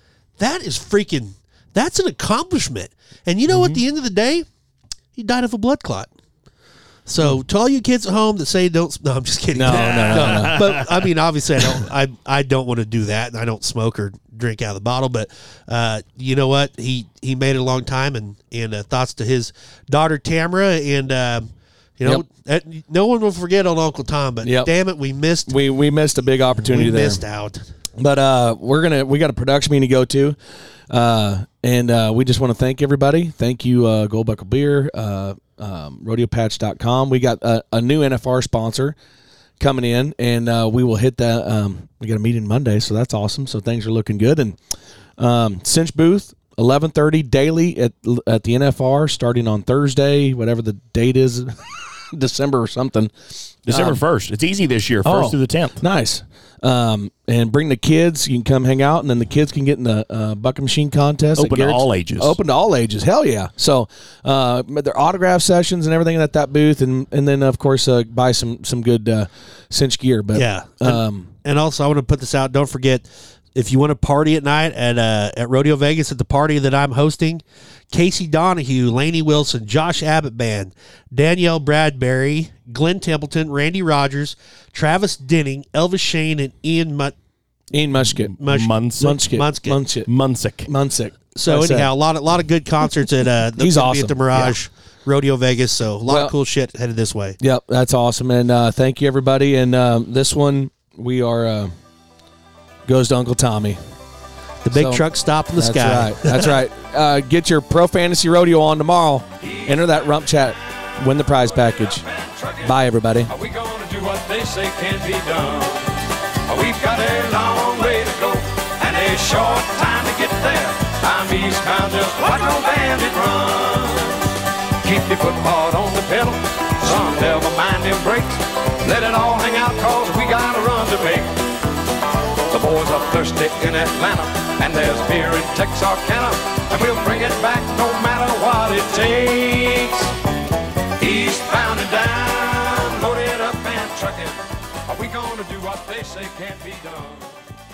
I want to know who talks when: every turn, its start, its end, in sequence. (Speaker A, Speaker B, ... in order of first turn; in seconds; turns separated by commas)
Speaker A: 0.4-4.4, Speaker A: 5.1-6.1, Speaker A: 7.1-25.5, Speaker B: 9.5-10.6, Speaker C: 9.7-10.9, Speaker B: 24.4-24.7, Speaker B: 25.5-27.2, Speaker A: 26.7-27.6, Speaker B: 28.0-30.4, Speaker B: 30.9-38.9, Speaker B: 39.6-44.6, Speaker B: 45.2-54.0, Speaker C: 53.7-55.8, Speaker B: 55.0-71.3, Speaker C: 61.4-62.4, Speaker A: 70.3-87.1, Speaker B: 87.7-88.4, Speaker A: 88.4-88.7, Speaker C: 88.4-89.2, Speaker B: 89.0-90.1, Speaker A: 89.2-89.8, Speaker C: 90.0-90.7, Speaker B: 90.7-91.9, Speaker A: 91.3-97.4, Speaker B: 93.6-94.6, Speaker B: 96.1-96.3, Speaker B: 97.4-101.7, Speaker B: 102.8-103.8, Speaker A: 104.6-106.6, Speaker B: 104.7-105.0, Speaker B: 105.5-112.0, Speaker D: 109.5-109.9, Speaker D: 111.8-112.7, Speaker B: 112.6-113.3, Speaker D: 113.2-131.5, Speaker D: 132.5-140.2, Speaker D: 141.0-147.4